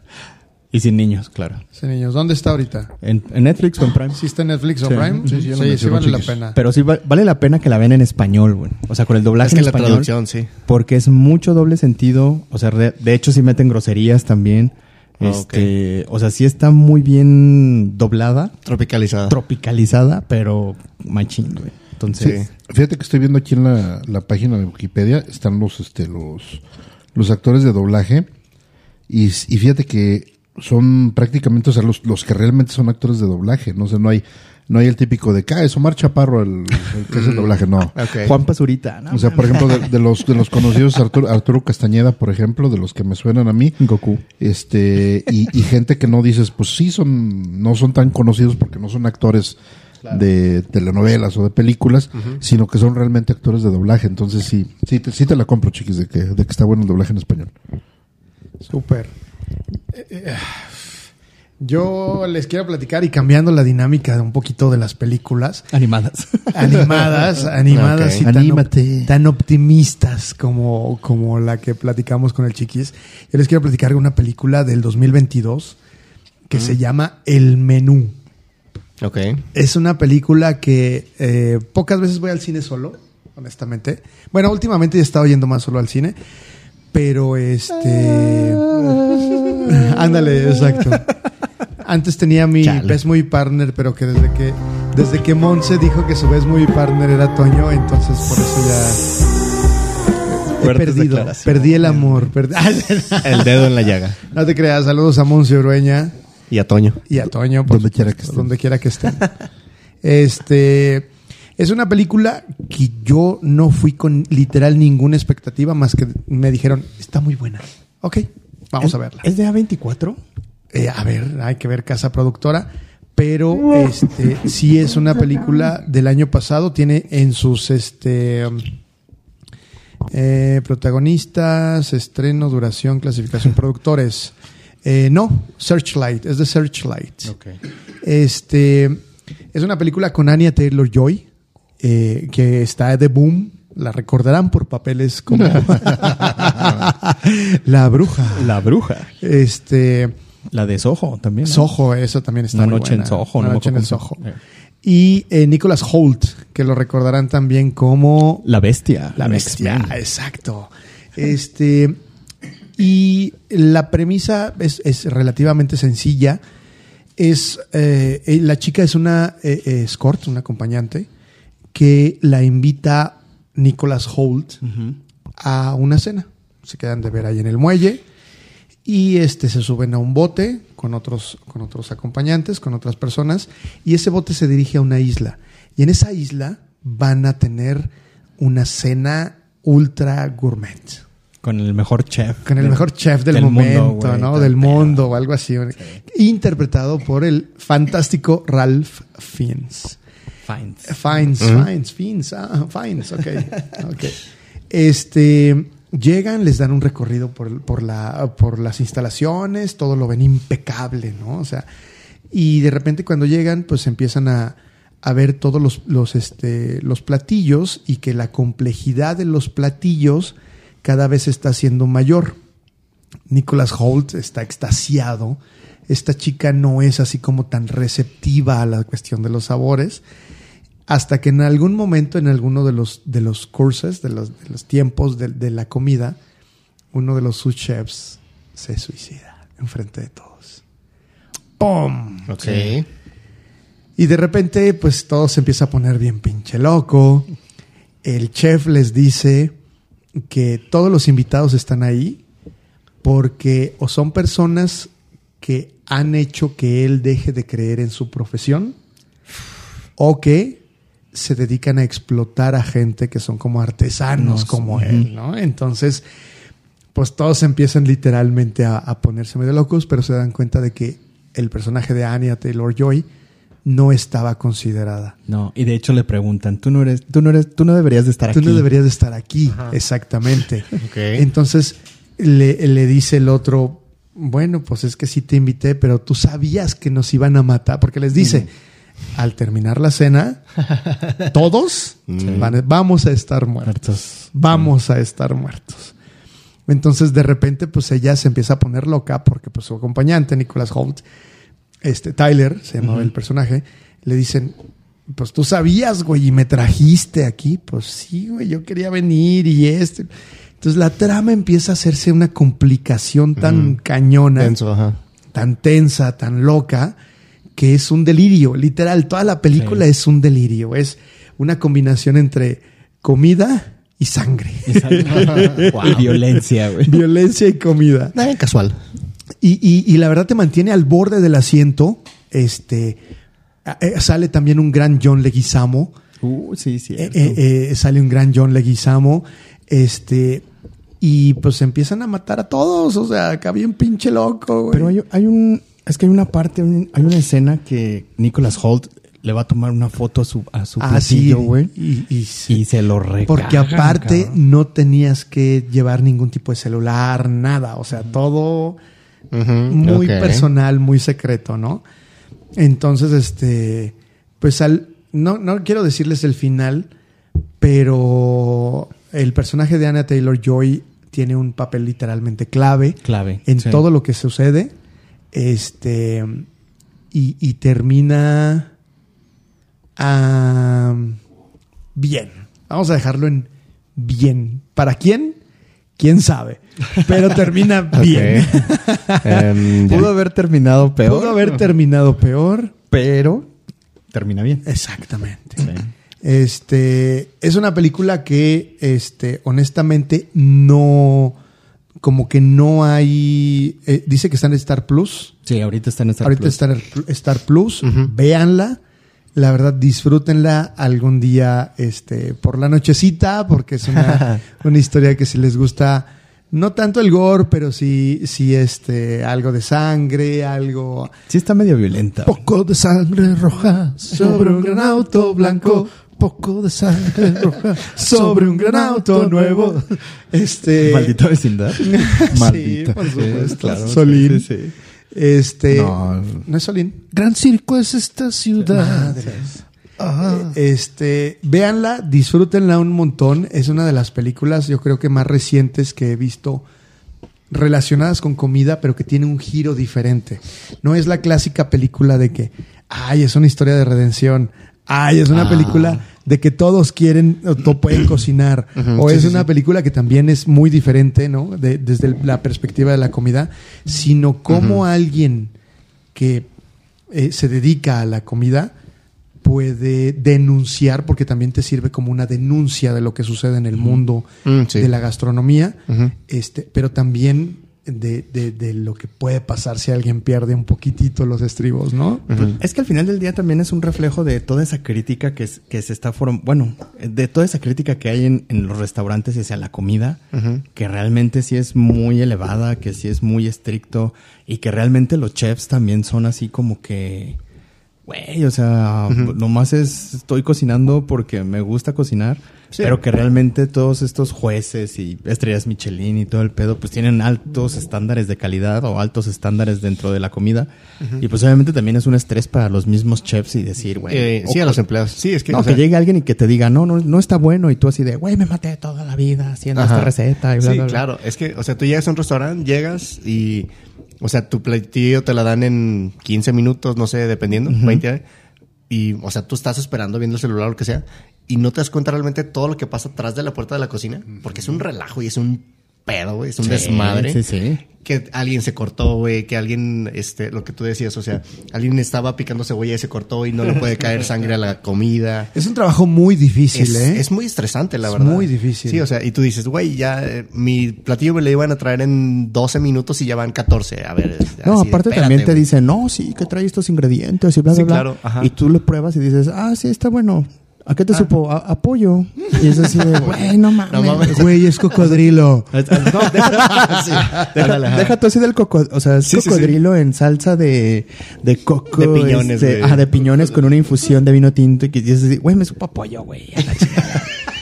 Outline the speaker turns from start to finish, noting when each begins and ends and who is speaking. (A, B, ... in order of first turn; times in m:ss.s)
0:00.7-0:01.6 A
0:01.8-0:02.9 B
0:03.0-0:04.2 A
0:04.1-0:06.6 B
0:04.8-0:05.4 A
0:05.2-0:06.4 C
0:06.5-0:10.1 A
0:09.4-0:10.5 D
0:10.7-0:18.5 A
0:15.2-0:15.7 D
0:18.6-0:19.4 D
0:19.3-0:22.5 A
0:22.2-0:26.6 C
0:22.2-0:22.5 D
0:27.1-0:28.3 C
0:29.1-0:38.3 C
0:37.1-0:38.3 D
0:38.2-0:39.9 A
0:39.1-0:43.8 C
0:43.8-0:44.2 A
0:44.4-0:57.5 C
0:58.7-0:59.1 B
1:00.0-1:00.6 B
1:01.6-1:05.6 B
1:05.7-1:06.8 A
1:06.5-1:15.8 B
1:07.7-1:08.2 D
1:08.2-1:09.1 C
1:16.5-1:18.2 B
1:19.0-1:19.4 D
1:19.5-1:26.2 B
1:26.9-1:29.0 B
1:29.5-1:31.1 B
1:31.8-1:39.0 B
1:32.6-1:33.0 D
1:40.5-1:43.6 B
1:40.6-1:42.3 A
1:43.2-1:44.2 D
1:44.3-1:46.1 B
1:46.5-1:47.0 D
1:47.1-1:49.3 B
1:47.6-1:48.5 C
1:50.0-1:59.2 B
1:59.2-2:00.2 A
2:00.7-2:08.6 B
2:10.1-2:14.3 B
2:14.8-2:17.3 B
2:17.2-2:17.6 A
2:18.0-2:21.2 B
2:21.8-2:28.6 B
2:25.3-2:26.3 C
2:28.3-2:29.1 A
2:29.2-2:30.1 B
2:30.5-2:31.7 A
2:31.4-2:34.2 B
2:32.5-2:34.4 A
2:34.8-2:38.4 B
2:38.4-2:39.9 A
2:39.2-2:42.0 B
2:42.8-2:46.4 B
2:47.2-2:51.1 B
2:51.7-2:54.6 B
2:54.6-2:54.9 A
2:55.4-2:58.0 B
2:58.8-3:11.0 B
3:11.4-3:15.1 A
3:12.4-3:20.0 B
3:20.5-3:20.9 A
3:20.8-3:24.2 B
3:21.4-3:21.7 D
3:24.7-3:31.6 B
3:32.3-3:42.4 B
3:43.3-3:50.0 B
3:50.9-3:56.2 B
3:56.9-4:00.6 B
4:01.6-4:02.6 B
4:02.3-4:02.9 D
4:04.0-4:07.3 B
4:08.0-4:09.5 B
4:10.3-4:12.2 B
4:13.0-4:14.9 B
4:15.4-4:18.8 B
4:20.0-4:20.6 B
4:21.1-4:26.0 B
4:24.2-4:25.1 A
4:26.9-4:33.0 B
4:33.6-4:35.1 B
4:35.3-4:38.7 A
4:38.3-4:48.5 B
4:40.8-4:41.2 D
4:49.1-4:50.4 B
4:51.2-4:55.9 B
4:52.1-4:52.5 D
4:53.6-4:54.7 A
4:56.7-5:01.0 B
5:01.8-5:04.6 B
5:02.8-5:03.1 A
5:05.1-5:10.1 B
5:10.6-5:14.6 B
5:13.4-5:13.8 D
5:14.4-5:15.0 D
5:15.3-5:17.0 B
5:17.6-5:26.2 B
5:19.5-5:19.8 A
5:24.7-5:27.0 A
5:25.6-5:26.1 D
5:26.8-5:28.1 B
5:28.1-5:28.8 D
5:29.4-5:33.0 B
5:33.6-5:35.9 B
5:36.2-5:37.4 A
5:37.0-5:40.4 B
5:41.0-5:44.9 B
5:44.7-5:51.7 A
5:50.8-5:52.6 B
5:52.5-5:54.4 A
5:53.3-5:58.8 B
5:59.3-6:00.5 D
5:59.7-6:01.8 B
6:02.6-6:06.9 B
6:07.6-6:14.7 B
6:13.0-6:13.8 A
6:15.3-6:16.4 B
6:17.1-6:18.7 B
6:20.0-6:21.2 B
6:22.0-6:25.4 B
6:26.0-6:29.4 B
6:27.9-6:28.6 D
6:29.2-6:30.1 D
6:29.8-6:31.6 A
6:31.0-6:32.7 B
6:32.9-6:33.5 A
6:34.1-6:34.6 A
6:34.6-6:41.4 B
6:35.6-6:35.9 A
6:42.0-6:45.3 B
6:45.4-6:46.6 A
6:46.2-6:48.8 B
6:47.8-6:48.1 D
6:49.3-7:01.1 B
6:54.0-6:54.4 D
7:01.3-7:02.4 A
7:02.2-7:09.9 C
7:04.1-7:05.9 B
7:07.7-7:11.2 B
7:10.8-7:11.9 A
7:11.8-7:14.5 B
7:12.3-7:13.6 C
7:13.2-7:14.7 A
7:15.1-7:17.0 B
7:15.7-7:16.4 C
7:17.1-7:19.2 C
7:18.7-7:19.6 B
7:20.0-7:20.6 C
7:20.2-7:26.6 B
7:27.5-7:45.5 B
7:35.3-7:36.0 D
7:38.8-7:39.5 D
7:44.5-7:44.8 D
7:46.1-7:46.5 B
7:47.1-7:48.7 B
7:49.4-8:02.6 B
7:53.8-7:54.9 D
8:02.3-8:02.6 D
8:02.6-8:10.2 A
8:10.3-8:10.6 D
8:10.7-8:17.4 A
8:18.1-8:34.8 A
8:34.1-8:35.8 D
8:35.5-8:41.0 A
8:39.8-8:43.7 D
8:44.2-8:48.2 D
8:47.7-8:48.0 A
8:48.9-8:57.4 D
8:56.6-8:57.8 A
8:58.0-9:05.5 D
9:05.5-9:07.2 B
9:06.7-9:15.6 D
9:08.1-9:09.1 B
9:14.6-9:24.5 A
9:17.7-9:18.5 D
9:22.6-9:24.5 D
9:24.3-9:26.0 B
9:25.7-9:37.3 A
9:26.0-9:28.1 D
9:29.2-9:29.8 D
9:31.9-9:33.0 D